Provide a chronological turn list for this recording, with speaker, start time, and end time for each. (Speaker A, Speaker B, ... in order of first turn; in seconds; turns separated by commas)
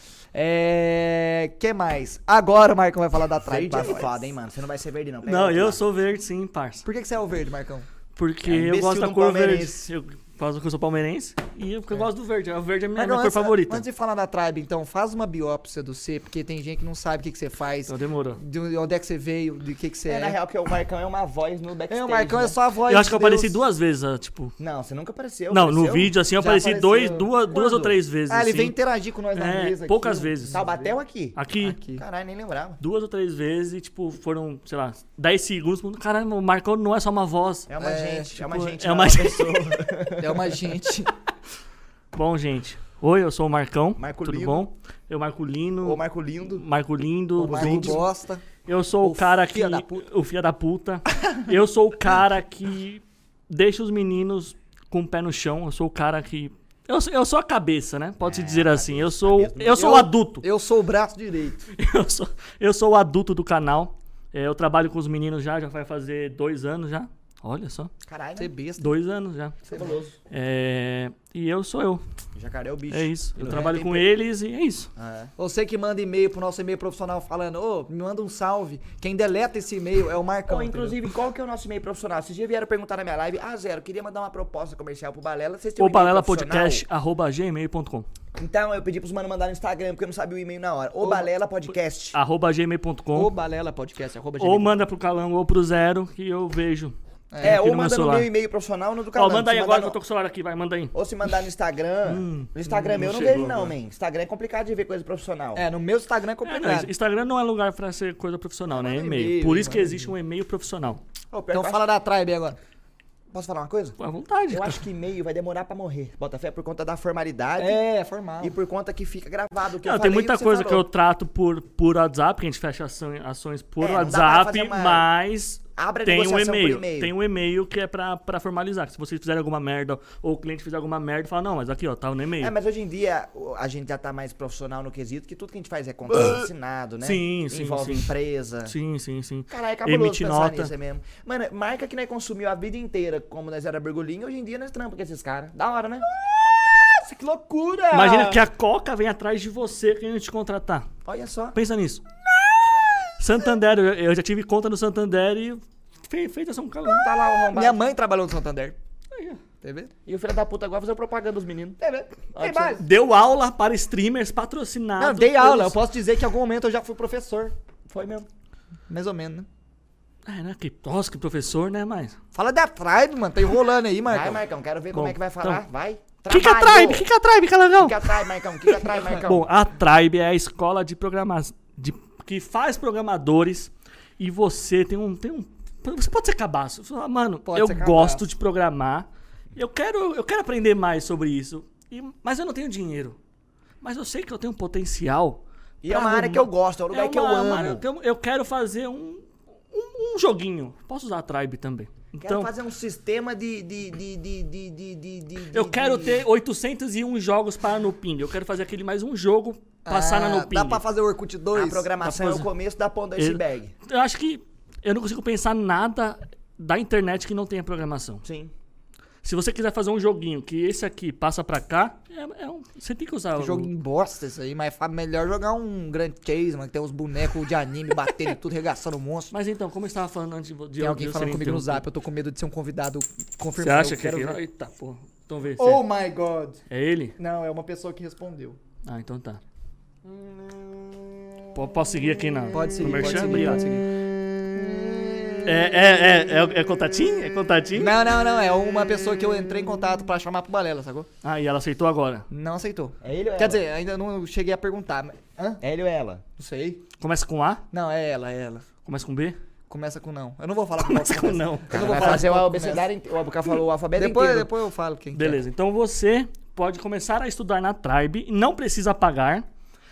Speaker A: 0.3-4.2, Speaker B: 3.4-5.8, Speaker C: 5.2-6.8, Speaker A: 6.8-7.9, Speaker C: 8.2-13.8, Speaker B: 8.4-9.9, Speaker A: 12.9-20.4, Speaker C: 17.9-18.4, Speaker B: 20.1-22.6, Speaker A: 21.9-23.6, Speaker C: 22.9-24.5, Speaker B: 24.6-26.1, Speaker C: 25.5-28.8, Speaker A: 26.4-27.3, Speaker B: 27.5-28.0, Speaker A: 28.3-30.9, Speaker C: 29.3-30.6, Speaker B: 30.5-31.4, Speaker C: 31.4-31.8, Speaker A: 31.6-32.0, Speaker B: 31.9-32.8, Speaker C: 32.8-37.7, Speaker B: 37.7-40.7, Speaker A: 37.8-38.4, Speaker C: 38.4-39.7, Speaker A: 40.2-41.1, Speaker C: 42.1-48.0, Speaker B: 44.0-44.6, Speaker B: 45.8-46.6, Speaker A: 47.4-48.4, Speaker B: 47.4-48.0, Speaker C: 48.6-60.4, Speaker A: 49.0-50.0, Speaker B: 58.2-60.0, Speaker A: 59.7-61.7, Speaker C: 61.8-67.9, Speaker B: 68.0-68.5, Speaker A: 68.4-68.9, Speaker C: 68.8-69.6, Speaker A: 69.7-70.1, Speaker B: 69.7-70.1, Speaker C: 70.3-72.0, Speaker B: 72.3-74.1, Speaker C: 72.9-74.9, Speaker B: 75.0-75.3, Speaker A: 75.4-81.0, Speaker B: 80.5-86.8, Speaker C: 85.8-88.0, Speaker B: 88.3-92.2, Speaker A: 91.0-91.3, Speaker C: 92.1-93.3, Speaker A: 93.1-94.8, Speaker C: 94.4-98.3, Speaker A: 97.3-97.6, Speaker B: 97.4-100.0, Speaker C: 99.1-100.9, Speaker B: 100.9-105.7, Speaker C: 102.0-103.6, Speaker A: 102.7-103.7, Speaker A: 105.5-106.9, Speaker C: 106.4-111.0, Speaker A: 108.7-110.1, Speaker B: 111.3-111.8, Speaker A: 111.5-112.6, Speaker B: 113.3-114.0, Speaker C: 114.0-114.8, Speaker B: 114.5-117.8, Speaker A: 117.6-118.5, Speaker B: 118.4-120.8, Speaker C: 119.8-132.5, Speaker B: 123.8-125.1, Speaker B: 125.8-127.1, Speaker B: 132.4-138.7, Speaker C: 136.1-136.5, Speaker C: 137.0-138.1, Speaker C: 138.7-140.7, Speaker B: 139.5-146.1, Speaker A: 146.6-148.4, Speaker C: 147.9-150.9, Speaker B: 151.0-151.6, Speaker C: 151.5-152.0, Speaker C: 153.2-157.1, Speaker B: 156.9-157.8, Speaker A: 157.5-158.8, Speaker C: 159.1-159.4, Speaker A: 159.6-159.9, Speaker B: 160.1-161.8, Speaker A: 161.8-162.8, Speaker B: 162.3-162.8, Speaker C: 162.8-165.8, Speaker A: 165.0-167.5, Speaker B: 167.9-168.3, Speaker A: 168.9-169.5, Speaker C: 170.2-172.2, Speaker A: 172.3-174.4, Speaker B: 174.1-177.1, Speaker C: 174.9-175.6, Speaker C: 176.3-193.2, Speaker B: 177.8-179.5, Speaker A: 187.4-188.3, Speaker C: 193.8-202.5, Speaker B: 195.8-197.8, Speaker B: 202.2-206.2, Speaker C: 205.5-210.8, Speaker A: 209.8-211.9, Speaker B: 211.5-213.7, Speaker C: 212.0-212.5, Speaker C: 213.2-218.2, Speaker B: 218.2-218.5, Speaker C: 219.2-223.7, Speaker A: 223.4-229.3, Speaker C: 229.3-231.8, Speaker A: 230.8-234.4, Speaker C: 233.6-235.8, Speaker A: 235.6-236.6, Speaker C: 236.7-237.2, Speaker A: 237.2-238.6, Speaker C: 238.8-239.4, Speaker C: 241.5-243.7, Speaker A: 242.5-244.0, Speaker B: 244.5-244.9, Speaker C: 245.4-248.0, Speaker A: 247.8-251.1, Speaker C: 251.2-252.2, Speaker A: 252.3-255.6, Speaker B: 253.0-253.7, Speaker B: 255.6-256.2, Speaker A: 256.4-256.8, Speaker C: 257.0-257.6, Speaker A: 257.7-258.7, Speaker C: 258.8-259.4, Speaker A: 259.7-262.8, Speaker C: 260.8-262.2, Speaker B: 261.7-264.5, Speaker A: 263.9-265.4, Speaker C: 265.1-269.4